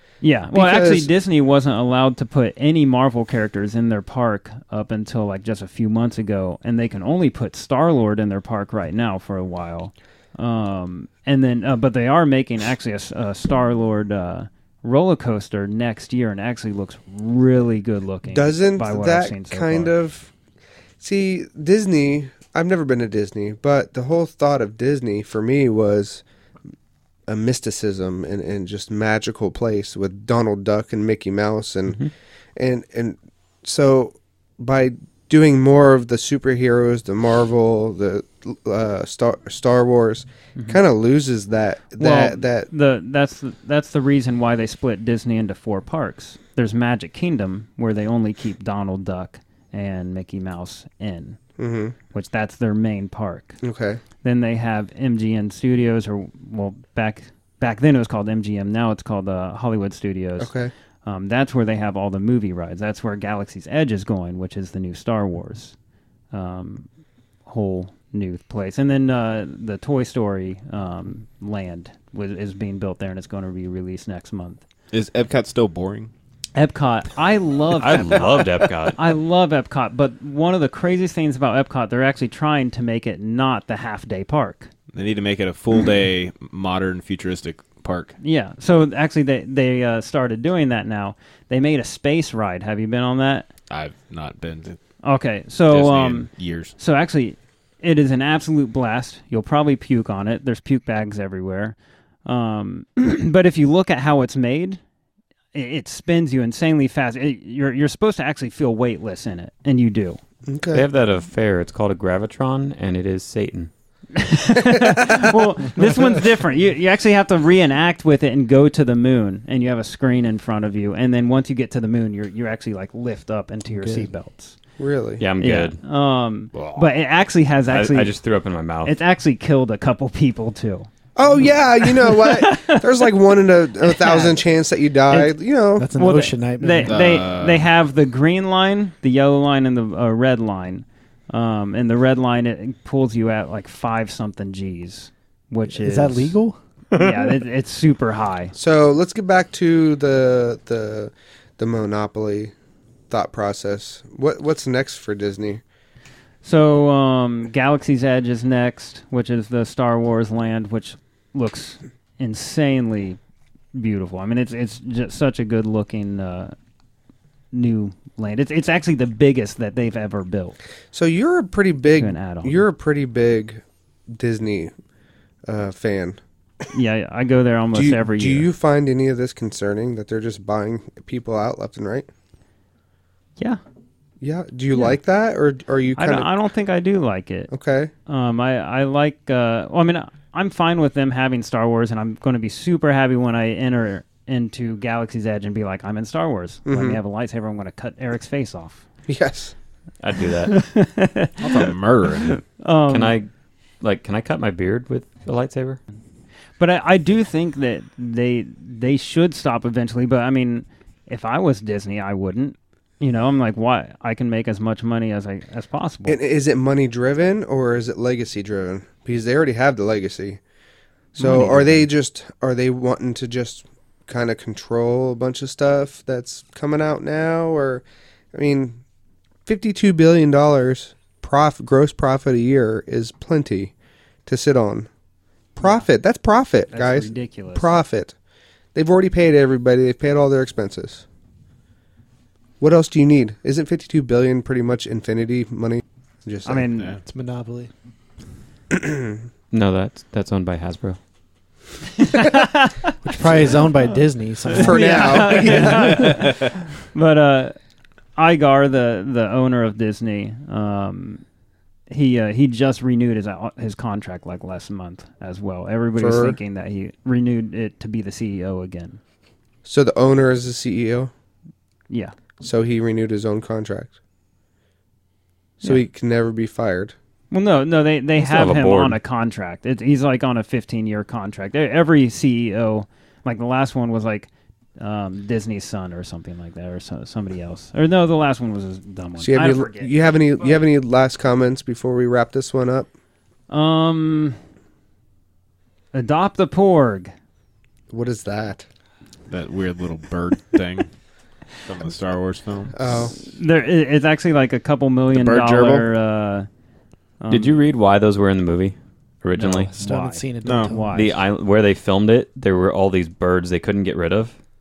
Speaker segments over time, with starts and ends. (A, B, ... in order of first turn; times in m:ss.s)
0:00.2-0:20.0 A
0:00.5-0:01.1 B
0:18.3-0:20.3 B
0:21.0-0:26.2 B
0:27.3-0:42.7 B
0:42.0-0:51.4 A
0:51.6-0:52.0 B
0:52.1-0:53.6 A
0:53.6-0:54.0 B
0:54.2-1:05.8 A
1:00.4-1:00.7 B
1:06.3-1:06.9 A
1:07.5-1:14.6 A
1:14.9-1:16.1 C
1:16.5-1:24.7 A
1:17.8-1:19.0 D
1:24.9-1:28.1 C
1:28.2-1:33.5 A
1:33.7-1:34.8 C
1:35.0-1:44.8 A
1:35.7-1:36.7 C
1:45.5-1:50.2 A
1:50.5-1:50.8 B
1:50.7-1:53.7 D
1:54.2-2:04.6 A
2:03.7-2:04.1 E
2:04.8-2:05.2 B
2:05.2-2:05.8 D
2:05.4-2:08.2 A
2:07.7-2:09.0 D
2:08.8-2:10.9 A
2:11.2-2:15.9 B
2:11.8-2:13.1 A
2:13.8-2:14.4 A
2:15.1-2:15.4 A
2:15.8-2:17.0 E
2:15.9-2:26.4 A
2:16.8-2:17.7 C
2:25.7-2:26.6 E
2:26.9-2:28.5 A
2:28.6-2:32.5 B
2:33.1-2:35.6 B
2:36.4-2:43.2 A
2:43.7-2:46.6 A
2:47.5-2:50.6 A
2:50.9-2:54.7 B
2:51.9-2:52.6 A
2:55.5-2:56.2 B
2:56.7-2:58.5 A
2:57.7-3:02.1 B
3:04.2-3:06.3 B
3:06.0-3:07.5 A
3:07.5-3:07.9 B
3:08.1-3:18.8 A
3:16.7-3:17.0 B
3:19.1-3:19.5 B
3:20.0-3:20.6 D
3:20.5-3:23.2 A
3:21.4-3:22.4 C
3:22.9-3:23.3 D
3:23.8-3:25.8 D
3:26.6-3:36.2 A
3:36.1-3:40.4 B
3:41.2-3:48.8 B
3:41.2-3:41.9 A
3:49.5-3:53.8 B
3:54.3-3:54.9 B
3:55.6-3:55.9 A
3:55.6-3:58.2 B
3:56.7-3:57.8 A
3:58.8-4:01.0 B
4:02.6-4:06.7 B
4:06.4-4:06.9 A
4:06.7-4:07.0 C
4:07.0-4:07.7 E
4:08.7-4:09.0 B
4:09.5-4:11.0 D
4:12.0-4:12.8 A
4:13.0-4:16.0 E
4:14.5-4:16.0 B
4:14.6-4:17.6 A
4:18.2-4:21.2 A
4:21.9-4:29.0 A
4:26.0-4:26.4 B
4:29.6-4:31.1 B
4:31.9-4:32.1 A
4:32.4-4:34.0 B
4:35.6-4:37.0 B
4:37.3-4:50.6 A
4:38.2-4:39.0 D
4:49.2-4:52.9 B
4:53.5-4:54.4 A
4:55.9-4:57.1 A
4:57.9-4:58.7 B
4:59.3-5:00.9 C
5:01.6-5:02.8 C
5:02.8-5:03.1 B
5:03.2-5:06.5 A
5:05.1-5:05.9 C
5:07.2-5:07.6 A
5:07.3-5:09.7 D
5:09.4-5:11.2 A
5:09.8-5:11.2 E
5:10.4-5:10.7 C
5:10.9-5:14.4 D